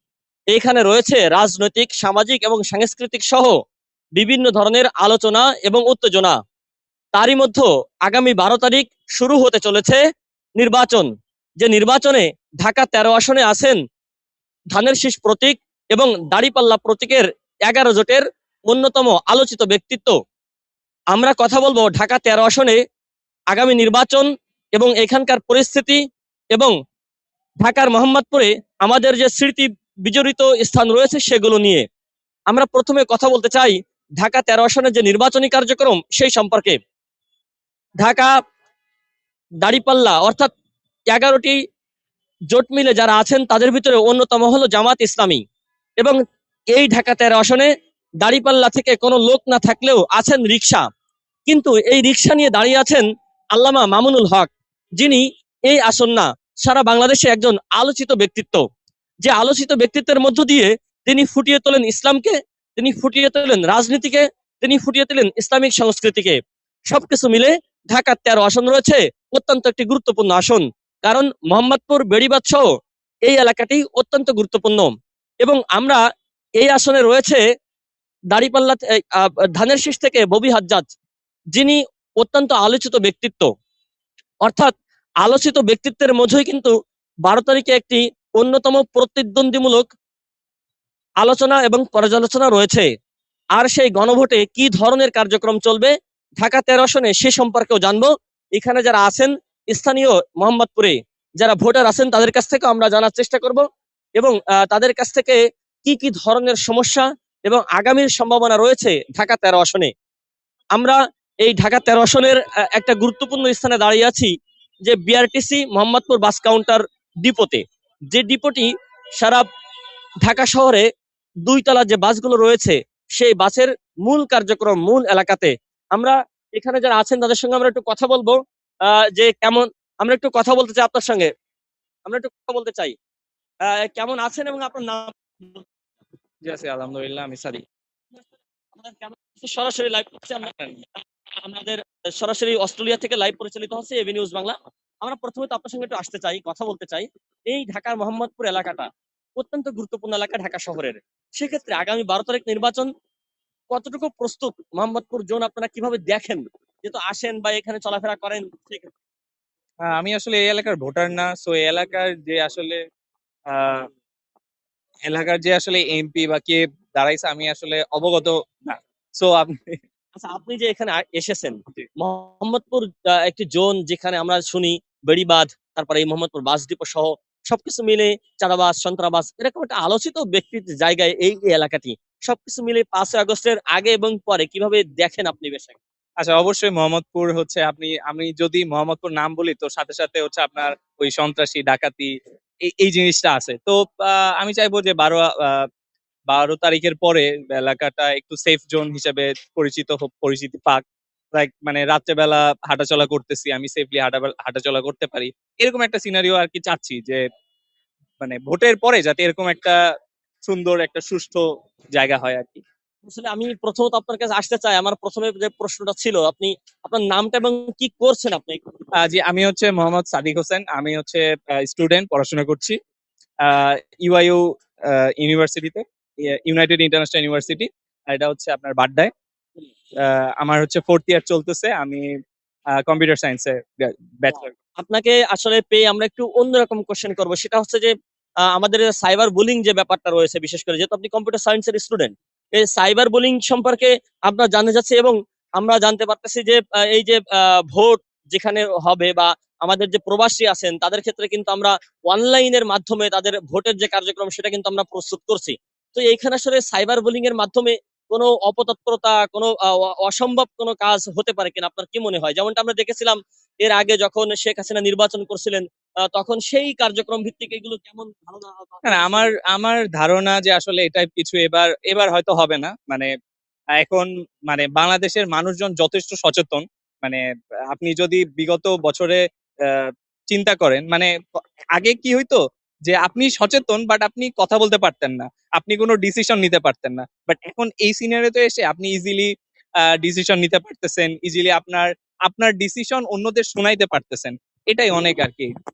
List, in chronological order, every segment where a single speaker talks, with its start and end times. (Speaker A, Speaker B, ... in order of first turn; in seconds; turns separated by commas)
Speaker A: 0.5-3.5, Speaker A: 4.2-6.3, Speaker A: 7.1-10.0, Speaker A: 10.6-11.1, Speaker A: 11.6-13.8, Speaker A: 14.7-20.2, Speaker A: 21.1-22.8, Speaker A: 23.5-26.0, Speaker A: 27.6-31.8, Speaker A: 32.5-36.8, Speaker A: 38.0-38.3, Speaker A: 39.6-40.5, Speaker A: 41.1-41.6, Speaker A: 42.5-45.4, Speaker A: 46.7-47.7, Speaker A: 48.2-50.8, Speaker A: 51.5-58.6, Speaker A: 59.2-66.4, Speaker A: 66.9-72.7, Speaker A: 73.3-74.9, Speaker A: 75.4-76.0, Speaker A: 76.6-77.4, Speaker A: 78.3-80.9, Speaker A: 81.5-83.5, Speaker A: 84.4-84.7, Speaker A: 85.2-86.7, Speaker A: 87.2-89.8, Speaker A: 91.2-92.8, Speaker A: 93.6-103.6, Speaker A: 104.2-109.9, Speaker A: 110.7-114.3, Speaker A: 114.8-118.7, Speaker A: 119.2-119.5, Speaker A: 120.2-120.8, Speaker A: 121.5-128.4, Speaker A: 128.9-131.3, Speaker A: 132.1-132.9, Speaker A: 133.7-135.7, Speaker B: 136.4-137.6, Speaker A: 138.1-140.5, Speaker B: 140.5-140.8, Speaker A: 141.4-152.9, Speaker A: 153.7-158.9, Speaker B: 159.9-162.8, Speaker B: 163.5-163.9, Speaker B: 165.1-169.8, Speaker A: 170.2-185.8, Speaker B: 186.2-192.1, Speaker B: 192.7-195.7, Speaker B: 196.3-200.8, Speaker B: 201.3-207.2, Speaker B: 208.2-209.8, Speaker B: 210.4-212.6, Speaker A: 213.1-218.6, Speaker B: 219.0-222.8, Speaker B: 223.4-229.1, Speaker B: 230.0-232.1, Speaker B: 232.8-234.5, Speaker A: 234.8-237.9, Speaker A: 238.5-269.3, Speaker B: 268.9-273.1, Speaker B: 273.8-277.2, Speaker B: 277.7-281.1, Speaker B: 281.8-289.3, Speaker B: 289.8-295.5